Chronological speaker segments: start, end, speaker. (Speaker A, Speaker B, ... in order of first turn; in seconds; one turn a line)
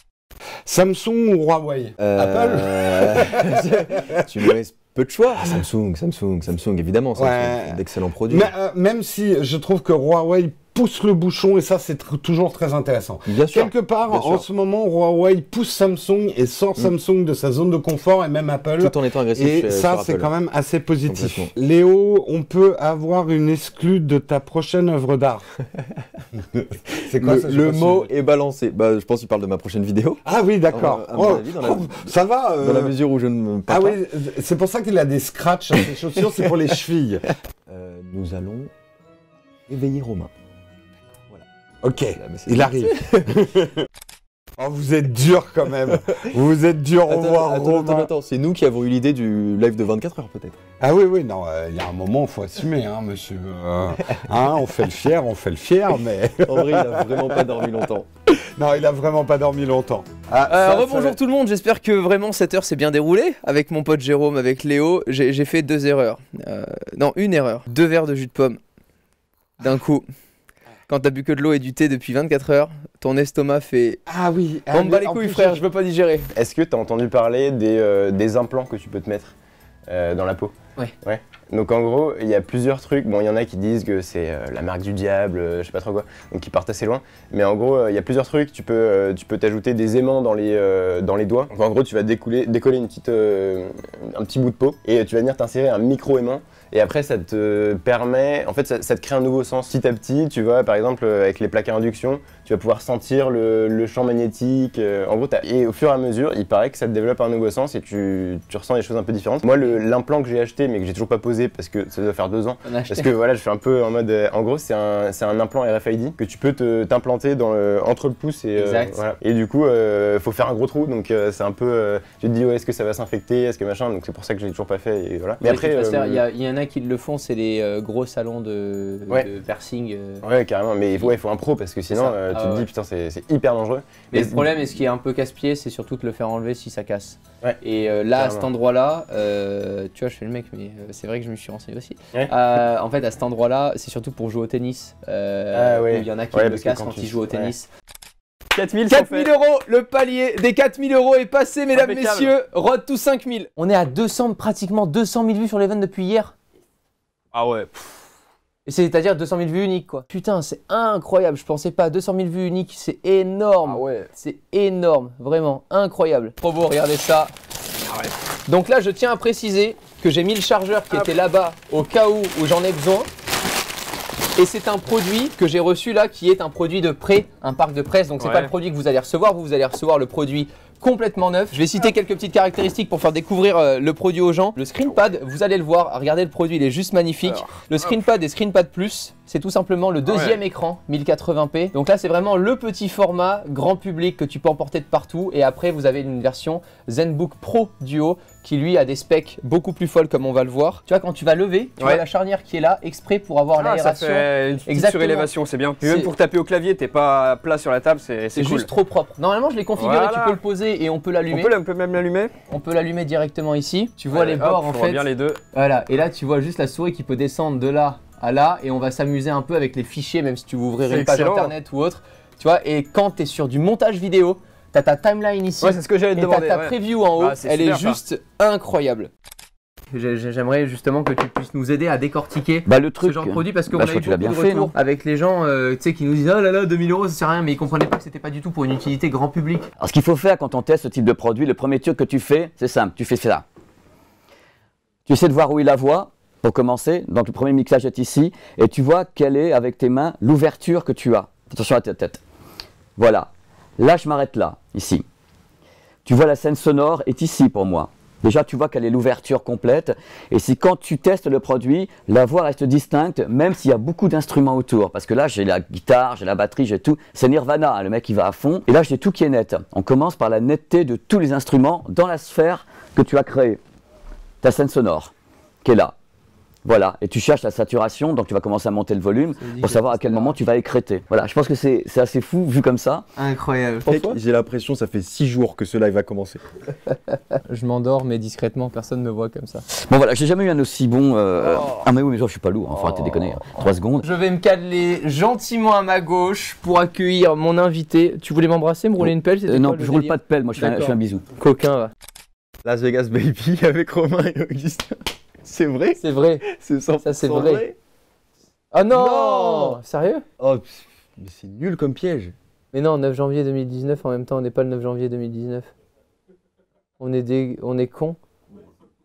Speaker A: 0.7-3.5
Speaker B: 2.0-8.6
Speaker A: 7.2-25.4
Speaker B: 13.3-14.5
Speaker B: 18.8-20.3
Speaker B: 21.1-21.5
Speaker A: 27.1-28.1
Speaker B: 27.1-34.0
Speaker A: 30.2-32.9
Speaker A: 33.7-37.2
Speaker B: 35.8-36.5
Speaker B: 37.7-38.7
Speaker B: 39.7-40.3
Speaker A: 41.8-43.7
Speaker B: 42.1-43.3
Speaker A: 44.6-48.1
Speaker B: 47.0-50.6
Speaker A: 50.8-57.5
Speaker B: 56.5-58.1
Speaker A: 58.6-61.2
Speaker C: 60.5-68.6
Speaker C: 69.6-70.0
Speaker C: 70.9-74.0
Speaker A: 74.1-75.6
Speaker C: 74.7-76.3
Speaker D: 76.3-79.3
Speaker D: 79.9-126.2
Speaker C: 112.7-113.1
Speaker C: 118.6-119.0
Speaker C: 125.4-130.2
Speaker D: 130.2-134.5
Speaker C: 131.9-132.7
Speaker C: 134.1-147.7
Speaker D: 138.2-138.5
Speaker D: 145.5-147.5
Speaker E: 148.6-149.3
Speaker C: 148.9-156.3
Speaker E: 151.8-152.3
Speaker E: 157.3-158.0
Speaker C: 158.7-167.3
Speaker E: 163.7-164.1
Speaker C: 168.5-173.1
Speaker C: 174.4-205.3
Speaker E: 178.2-178.5
Speaker E: 187.3-187.9
Speaker E: 203.6-208.7
Speaker C: 205.8-206.1
Speaker C: 208.3-211.6
Speaker E: 209.8-210.4
Speaker E: 211.3-212.3
Speaker C: 212.5-229.1
Speaker E: 214.1-215.4
Speaker E: 220.9-221.5
Speaker E: 225.6-228.0
Speaker C: 229.9-239.7
Speaker F: 232.7-234.8
Speaker F: 239.8-243.4
Speaker F: 245.1-252.2
Speaker F: 253.0-255.1
Speaker F: 256.1-273.6
Speaker F: 274.4-275.1
Speaker F: 275.6-275.9
Speaker F: 276.6-283.1
Speaker C: 279.4-280.1
Speaker C: 283.2-284.2
Speaker B: 283.9-286.4
Speaker C: 287.5-289.6
Speaker F: 289.7-294.1
Speaker C: 291.4-291.8
Speaker C: 294.0-301.9
Speaker F: 299.0-301.2
Speaker B: 302.6-307.8
Speaker C: 306.0-306.4
Speaker C: 307.0-307.6
Speaker C: 308.7-310.2
Speaker B: 308.9-309.8
Speaker B: 310.4-312.3
Speaker C: 312.7-315.7
Speaker C: 317.0-318.2